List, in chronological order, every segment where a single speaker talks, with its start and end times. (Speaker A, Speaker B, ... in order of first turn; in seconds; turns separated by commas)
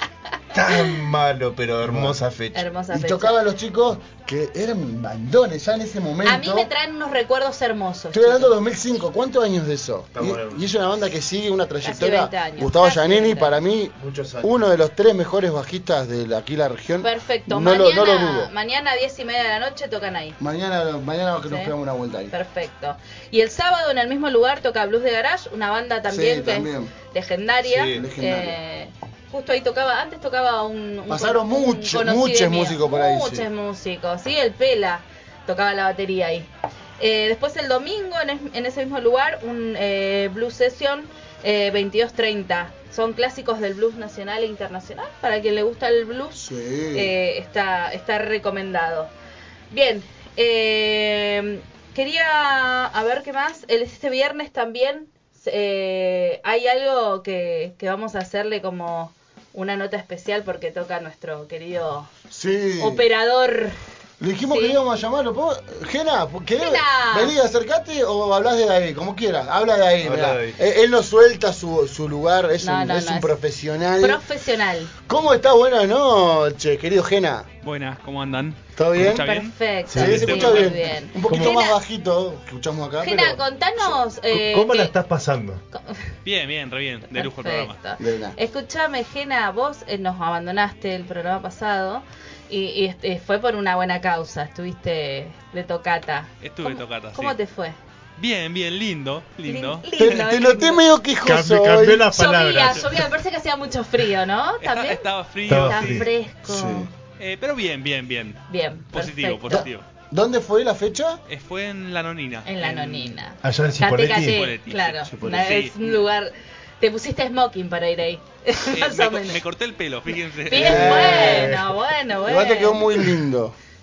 Speaker A: 0.5-2.6, Speaker B: 1.8-2.2, Speaker C: 2.5-3.4, Speaker B: 2.9-6.7, Speaker C: 6.2-8.5, Speaker B: 8.1-18.5, Speaker A: 10.1-10.6, Speaker C: 11.8-13.6, Speaker A: 14.0-14.5, Speaker C: 17.0-20.4, Speaker B: 20.4-22.3, Speaker C: 21.5-21.7, Speaker C: 22.3-49.1, Speaker B: 26.1-26.9, Speaker A: 27.7-28.0, Speaker B: 27.8-28.6, Speaker B: 31.1-33.5, Speaker B: 46.4-47.1, Speaker C: 49.7-62.1, Speaker B: 62.3-63.0, Speaker C: 62.8-63.8, Speaker B: 64.2-74.2, Speaker C: 64.5-64.8, Speaker C: 66.6-67.3, Speaker A: 70.0-70.6, Speaker C: 72.6-73.3, Speaker C: 74.0-74.9, Speaker B: 75.1-77.5, Speaker D: 77.6-80.7, Speaker B: 78.8-79.2, Speaker C: 79.1-81.8, Speaker A: 79.9-80.4, Speaker B: 79.9-83.9, Speaker A: 81.3-81.6, Speaker C: 83.0-84.9, Speaker A: 84.3-85.6, Speaker C: 85.7-86.1, Speaker D: 86.2-87.8, Speaker C: 87.1-97.8, Speaker B: 88.0-88.3, Speaker D: 96.4-97.4, Speaker D: 98.2-99.9, Speaker C: 99.4-100.8, Speaker B: 100.0-102.0, Speaker A: 101.2-103.1, Speaker C: 102.1-106.9, Speaker D: 104.6-106.1, Speaker A: 105.5-106.1, Speaker B: 106.4-106.9, Speaker D: 107.2-109.8, Speaker C: 108.5-109.7, Speaker B: 109.5-111.2, Speaker D: 111.3-113.2, Speaker C: 112.4-119.4, Speaker A: 113.4-114.4, Speaker D: 114.0-115.8, Speaker B: 115.1-115.7, Speaker D: 118.7-121.5, Speaker C: 120.5-122.9, Speaker B: 120.5-121.5, Speaker A: 120.6-121.7, Speaker B: 122.2-123.5